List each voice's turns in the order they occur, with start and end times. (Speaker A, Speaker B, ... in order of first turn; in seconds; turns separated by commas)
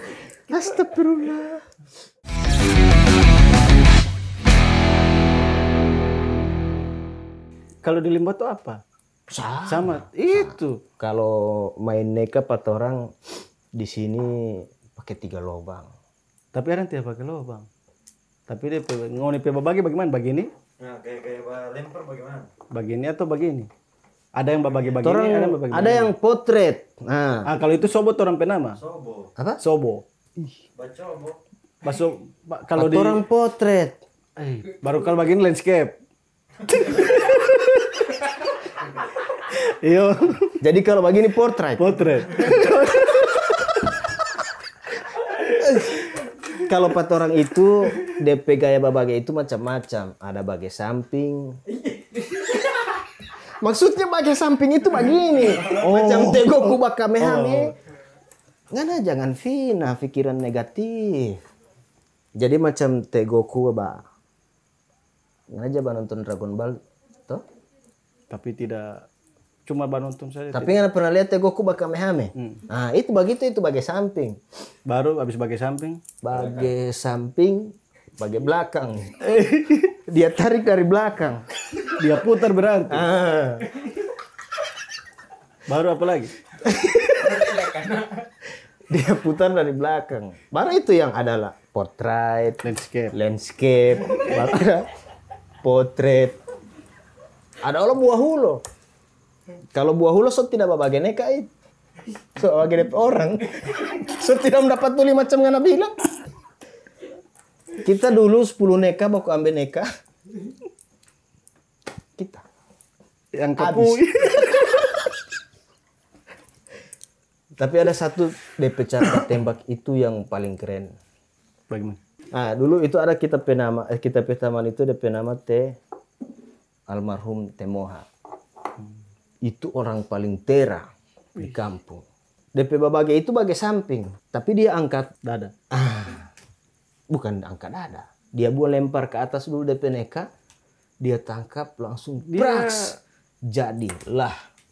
Speaker A: 0.5-1.7, Speaker B: 7.8-8.8, Speaker A: 9.3-13.1, Speaker B: 9.7-10.8, Speaker A: 13.8-15.9, Speaker B: 16.5-17.7, Speaker B: 18.5-20.5, Speaker C: 20.8-22.5, Speaker B: 22.7-23.7, Speaker B: 24.4-26.1, Speaker A: 25.0-27.5, Speaker B: 27.4-28.8, Speaker C: 28.8-29.3, Speaker A: 29.4-29.6, Speaker B: 29.6-30.0, Speaker C: 30.8-31.4, Speaker B: 31.8-33.2, Speaker A: 32.8-34.0, Speaker B: 34.4-36.0, Speaker B: 36.7-38.2, Speaker B: 39.4-40.6, Speaker A: 40.6-43.5, Speaker B: 41.8-43.2, Speaker A: 45.6-51.6, Speaker A: 53.6-57.7, Speaker B: 55.6-57.7, Speaker A: 58.7-61.4, Speaker A: 62.4-64.0, Speaker A: 65.5-67.4, Speaker B: 68.3-69.1, Speaker B: 69.7-70.8, Speaker A: 70.5-74.4, Speaker B: 72.3-72.6, Speaker B: 74.9-76.0, Speaker A: 76.2-79.3, Speaker B: 79.2-79.9, Speaker A: 79.8-81.4, Speaker B: 81.8-83.1, Speaker A: 82.9-83.9, Speaker B: 85.7-86.4, Speaker A: 86.6-87.8, Speaker A: 88.9-94.9, Speaker B: 92.6-93.1, Speaker A: 95.6-96.4, Speaker A: 97.6-98.6, Speaker A: 99.7-101.5, Speaker A: 102.3-106.0, Speaker A: 107.7-109.9, Speaker A: 112.2-112.4, Speaker B: 113.3-114.8, Speaker A: 113.6-114.4, Speaker A: 117.6-120.9, Speaker B: 121.7-122.0, Speaker A: 122.3-125.8, Speaker A: 126.9-128.1, Speaker A: 129.4-135.1, Speaker B: 131.3-131.6, Speaker B: 135.2-135.5, Speaker A: 135.7-136.3, Speaker A: 137.1-140.3, Speaker A: 141.0-144.4, Speaker B: 142.2-142.9